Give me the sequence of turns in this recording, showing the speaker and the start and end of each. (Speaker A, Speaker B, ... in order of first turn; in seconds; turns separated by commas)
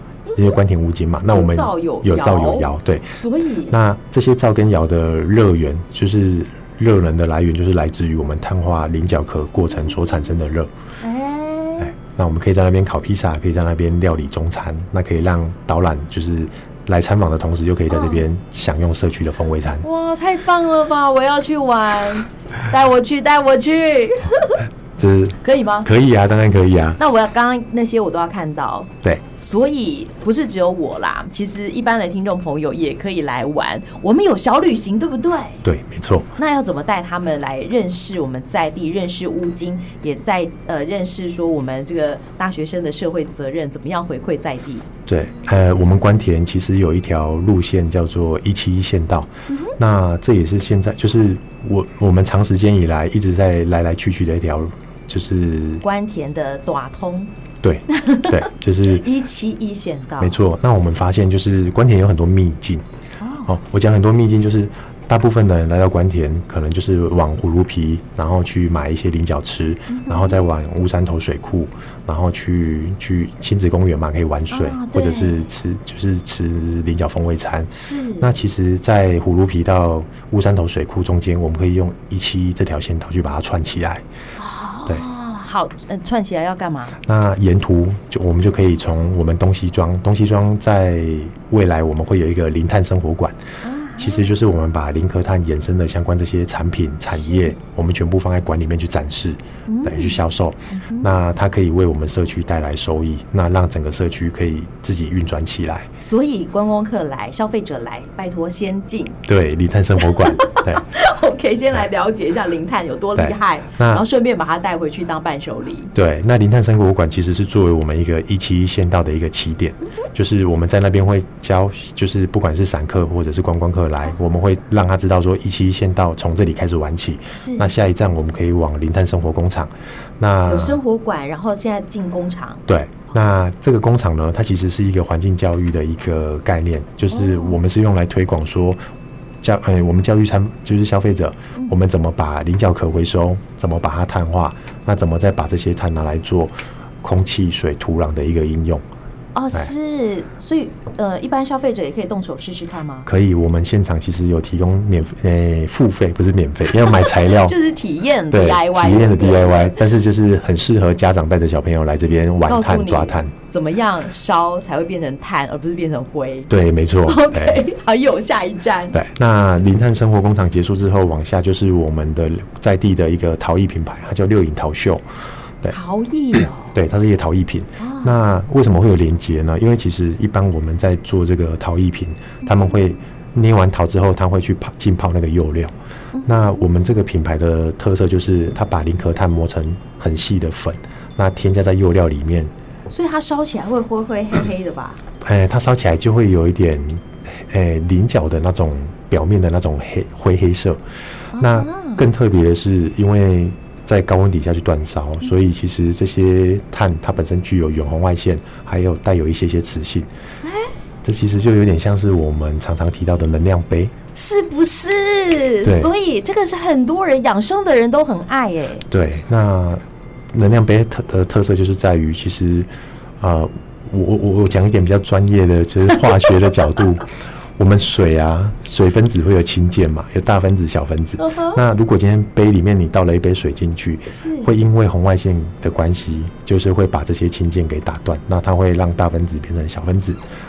Speaker A: 0.3-3.1, Speaker B: 1.3-3.8, Speaker A: 3.7-10.7, Speaker B: 11.0-11.9, Speaker A: 11.8-19.8, Speaker B: 17.9-18.2, Speaker B: 19.8-24.6, Speaker A: 25.0-27.0, Speaker B: 25.4-25.9, Speaker B: 27.0-35.6, Speaker A: 35.6-36.3, Speaker B: 36.4-44.9, Speaker A: 45.1-55.8, Speaker B: 49.5-49.8, Speaker B: 55.8-57.3, Speaker A: 57.6-59.1, Speaker B: 57.9-60.4, Speaker A: 60.2-62.8, Speaker B: 63.2-63.5, Speaker A: 63.5-84.0, Speaker B: 69.9-70.4, Speaker B: 74.5-75.4, Speaker B: 77.7-78.3, Speaker B: 84.4-87.0, Speaker A: 87.0-93.4, Speaker B: 93.6-94.3, Speaker A: 94.0-105.9, Speaker B: 97.1-97.5, Speaker B: 99.7-100.2, Speaker B: 100.7-101.1, Speaker B: 106.0-109.2, Speaker A: 109.2-110.8, Speaker B: 110.0-115.9, Speaker A: 113.2-114.0, Speaker A: 115.9-130.8, Speaker B: 127.3-127.7, Speaker B: 130.4-132.7, Speaker A: 132.7-138.8, Speaker B: 137.1-137.6, Speaker A: 139.4-148.8, Speaker B: 149.3-153.1, Speaker A: 153.1-157.6, Speaker B: 156.9-159.7, Speaker A: 158.3-163.3, Speaker B: 162.4-166.5, Speaker A: 166.5-167.6, Speaker B: 167.0-169.0, Speaker A: 168.9-175.0, Speaker B: 175.7-176.7, Speaker A: 176.6-185.7, Speaker B: 177.8-178.1, Speaker B: 186.1-186.6, Speaker A: 186.2-192.5, Speaker B: 192.9-195.0, Speaker A: 195.2-200.8, Speaker B: 201.3-202.0, Speaker A: 201.4-210.1, Speaker B: 210.4-210.7, Speaker A: 211.0-213.9, Speaker B: 214.1-218.8, Speaker A: 215.6-215.9, Speaker A: 218.9-222.7, Speaker A: 223.2-227.0, Speaker A: 227.6-240.2, Speaker B: 231.2-231.6, Speaker B: 234.1-234.5